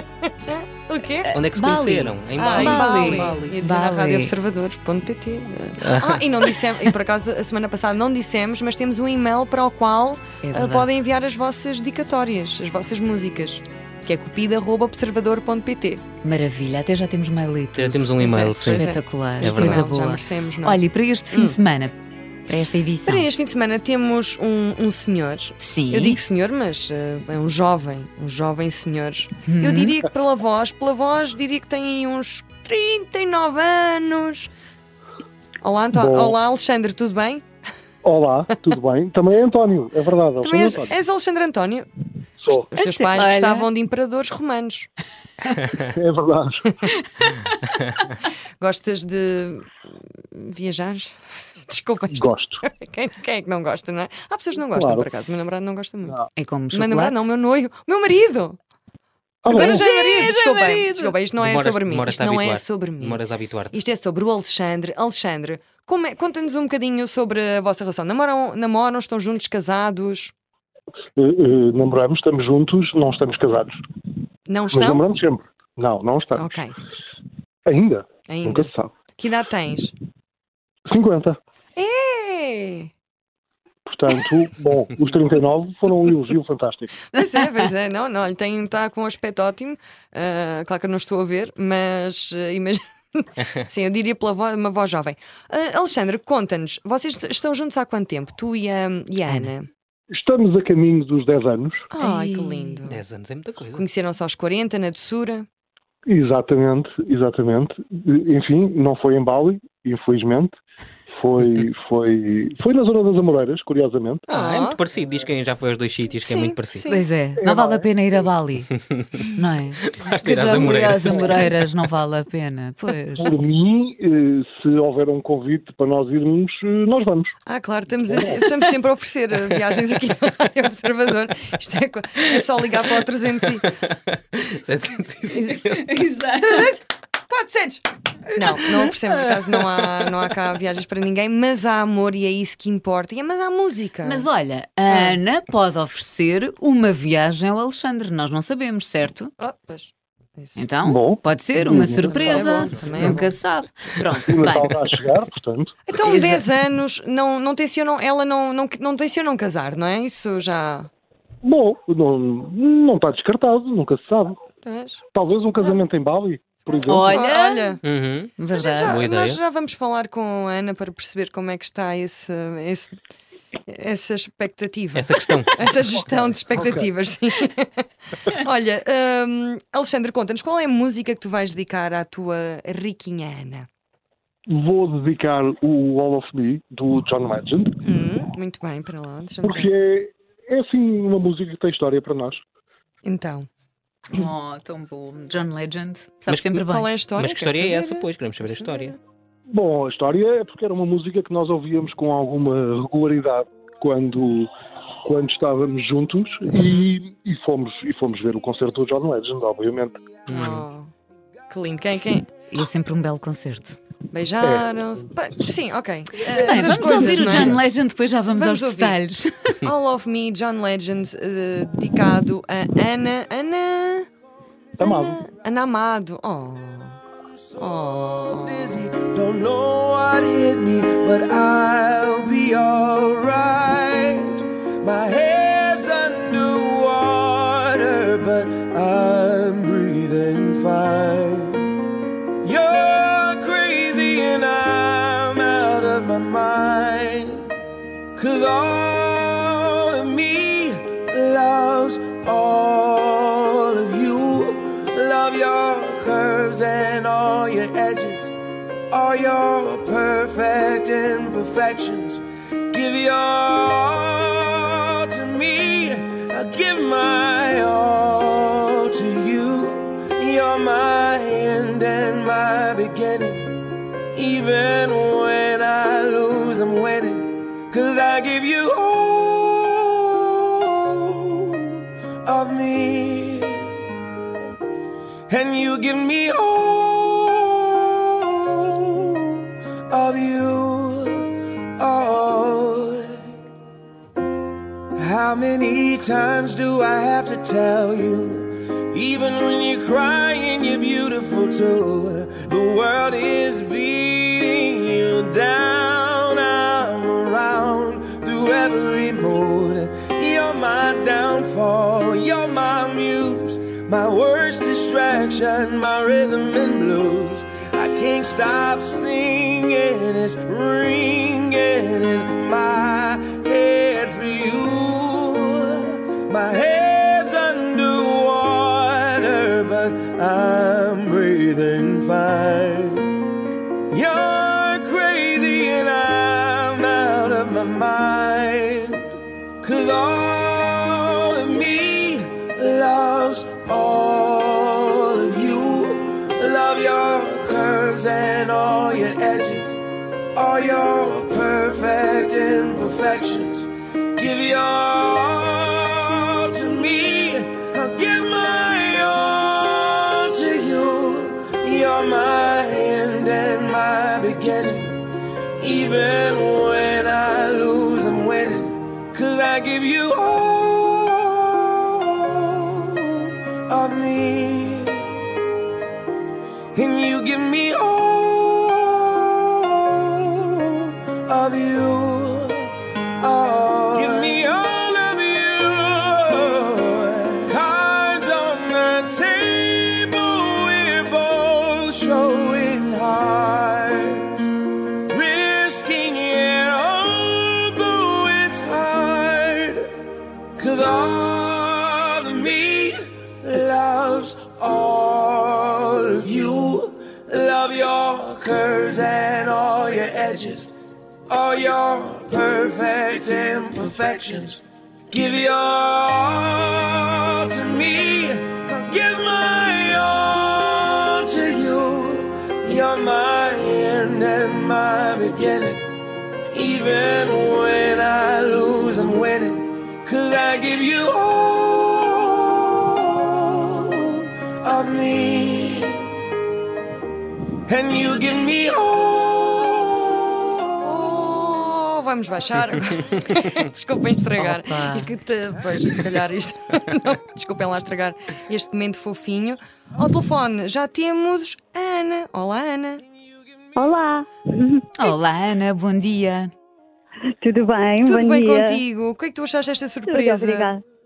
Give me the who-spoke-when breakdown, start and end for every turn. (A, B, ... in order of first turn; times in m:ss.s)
0:00.5-0:01.3 A
0:01.3-0:04.3 B
0:01.3-0:03.5 C
0:02.4-0:16.0 A
0:05.8-0:06.2 C
0:10.4-0:10.9 B
0:16.2-0:21.9 B
0:17.8-0:20.0 C
0:18.2-0:21.6 A
0:22.5-0:23.2 B
0:23.0-0:34.5 A
0:25.6-0:26.2 B
0:29.4-0:30.0 B
0:35.6-0:37.4 A
0:35.9-0:36.4 D
0:38.0-0:41.0 D
0:40.4-0:41.9 A
0:42.4-0:42.7 D
0:42.7-0:44.9 A
0:42.8-0:43.7 B
0:45.8-0:46.7 D
0:48.6-0:58.6 A
0:52.1-0:52.6 D
0:54.7-0:55.1 D
0:56.4-0:57.2 B
0:59.4-0:59.8 D
0:59.5-1:10.3 A
0:59.5-1:01.1 B
1:01.4-1:03.8 C
1:11.2-1:13.7 D
1:14.5-1:15.0 A
1:14.7-1:16.5 D
1:16.3-1:16.7 A
1:17.6-1:18.9 D
1:18.3-1:19.9 A
1:20.9-1:21.4 D
1:21.8-1:22.9 A
1:23.9-1:26.9 D
1:27.1-1:39.7 A
1:40.1-1:41.8 D
1:41.9-1:43.0 A
1:42.0-1:42.8 B
1:42.8-1:43.8 C
1:43.7-1:45.4 A
1:46.0-1:50.6 D
1:51.1-1:54.2 D
1:54.3-1:56.8 C
1:54.3-1:54.8 A
1:56.2-1:57.0 A
1:56.9-1:58.7 B
1:57.4-1:58.2 D
1:58.7-1:59.2 C
1:59.3-2:03.3 B
1:59.8-2:01.5 C
2:00.4-2:01.4 D
2:03.2-2:07.3 D
2:07.4-2:13.7 A
2:08.1-2:08.4 D
2:13.8-2:15.8 C
2:15.3-2:15.6 A
2:15.4-2:16.6 B
2:16.4-2:24.3 A
2:24.0-2:29.3 B
2:24.9-2:25.2 A
2:29.4-2:30.6 A
2:30.6-2:34.7 B
2:30.8-2:33.3 D
2:31.6-2:33.4 A
2:34.3-2:35.7 D
2:35.9-2:40.9 A
2:36.0-2:36.4 B
2:41.4-2:44.4 D
2:44.6-2:45.0 A
2:45.1-2:47.2 D
2:46.7-2:47.8 A
2:46.9-2:47.8 B
2:47.8-2:49.4 C
2:48.4-2:49.0 B
2:48.5-2:52.9 A
2:53.7-2:57.7 A
2:54.9-2:55.6 C
2:56.5-2:56.9 D
2:58.2-3:03.7 A
3:04.5-3:07.8 D
3:07.8-3:09.7 A
3:09.4-3:12.4 D
3:13.0-3:13.5 A
3:14.1-3:16.9 B
3:16.3-3:19.0 C
3:16.7-3:19.0 A
3:19.5-3:24.5 D
3:25.0-3:30.6 D
3:26.6-3:26.9 A
3:30.3-3:30.9 A
3:31.5-3:32.3 A
3:32.5-3:33.8 B
3:34.1-3:37.6 A
3:34.4-3:34.8 D
3:36.3-3:39.6 B
3:38.3-3:39.0 A
3:39.6-3:44.1 A
3:44.8-3:45.2 D
3:44.8-3:47.0 A
3:47.6-3:48.7 A
3:48.2-4:01.7 E
4:02.4-4:07.5 E
4:08.2-4:18.3 E
4:18.9-4:43.7 E
4:45.3-4:53.1 E
4:55.0-5:33.1 E
5:33.9-5:39.0 E
5:39.6-5:49.8 E
5:50.3-6:05.0 E
6:05.6-6:15.2 E
6:16.7-6:22.7 E
6:23.2-6:34.5 E
6:35.1-6:39.9 E
6:40.6-6:50.7 E
6:51.3-7:05.8 E
7:06.5-7:16.0 E
7:17.7-7:20.3 E
7:20.8-7:33.0 A
7:24.4-7:25.1 B
7:33.8-7:35.1 F
7:35.0-7:36.5 B
7:37.4-7:38.8 F
7:38.0-7:40.8 A
7:40.0-7:40.8 F